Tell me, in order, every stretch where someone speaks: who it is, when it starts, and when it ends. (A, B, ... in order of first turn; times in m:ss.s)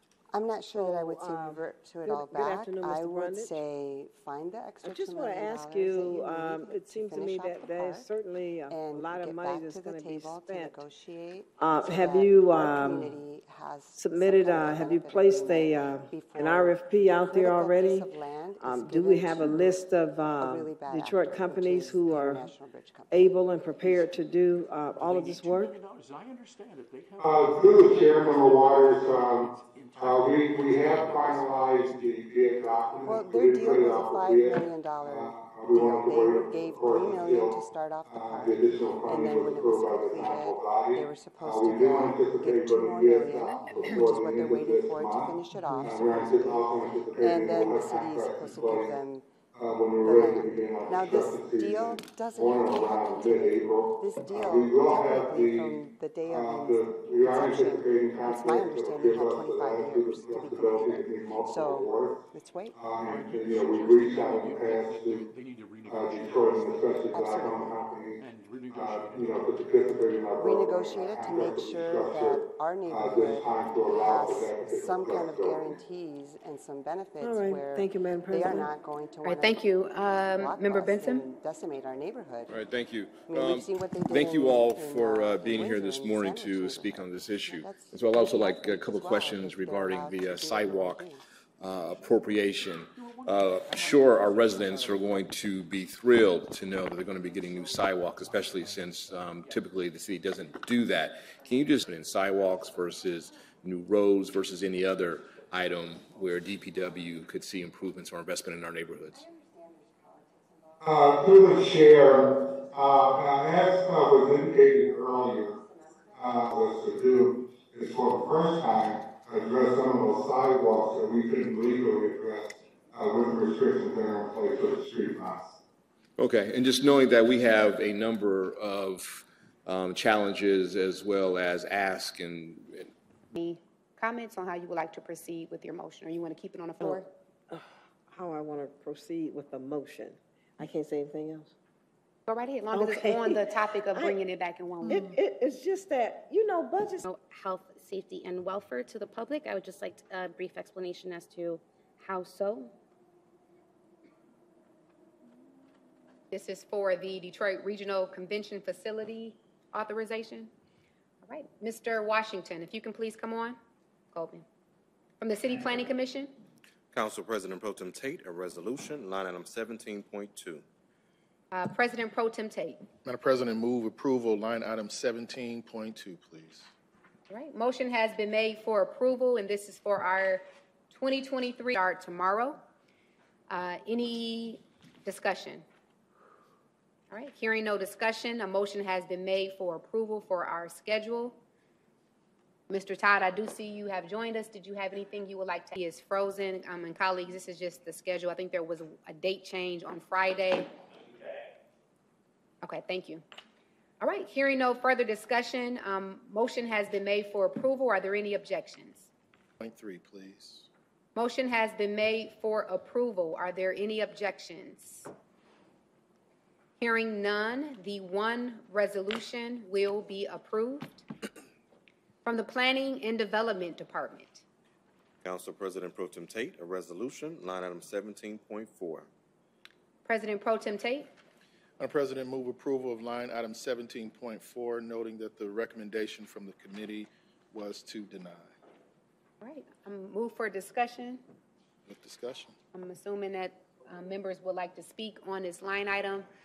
0:00.3-0:08.1 A
0:00.7-0:03.6 B
0:04.8-0:10.8 B
0:08.7-0:24.1 A
0:11.6-0:13.2 B
0:13.9-0:22.5 B
0:23.1-0:25.8 B
0:25.0-0:32.7 C
0:27.2-0:48.9 D
0:33.0-0:46.6 A
0:47.2-0:49.3 A
0:49.5-0:55.8 D
0:50.0-1:02.8 A
0:56.3-1:02.2 D
1:02.8-1:05.3 D
1:03.1-1:07.2 C
1:05.8-1:08.2 D
1:07.1-1:07.8 A
1:08.2-1:09.7 C
1:08.7-1:15.8 D
1:10.4-1:22.5 A
1:17.2-1:18.7 B
1:19.2-1:21.2 E
1:22.5-1:49.2 F
1:23.2-1:31.2 A
1:33.0-1:35.3 C
1:37.2-1:39.6 C
1:49.1-1:56.9 A
1:50.8-1:55.5 D
1:56.1-2:05.5 D
2:06.2-2:12.9 F
2:13.3-2:17.0 E
2:16.8-2:21.5 B
2:22.3-2:25.1 E
2:22.7-2:24.2 B
2:24.8-2:27.0 B
2:27.0-2:32.7 G
2:36.3-2:40.5 E
2:41.2-2:43.6 E
2:44.1-2:44.4 E
2:45.2-2:46.3 E
2:46.9-2:50.6 H
2:51.5-2:52.8 E
2:53.0-2:56.7 I
2:57.3-3:02.6 E
3:03.5-3:05.6 E
3:07.1-3:11.4 E
3:12.7-3:20.7 E
3:22.6-3:23.2 E
3:24.0-3:29.1 E
3:29.6-3:30.7 I
3:31.1-3:35.1 E
3:36.8-3:41.0 E
3:42.2-3:44.4 E
3:45.2-3:49.1 H
3:50.0-3:51.1 E
3:51.8-3:58.5 I
3:59.4-4:01.2 E
4:01.9-4:02.5 I
4:02.7-4:06.2 E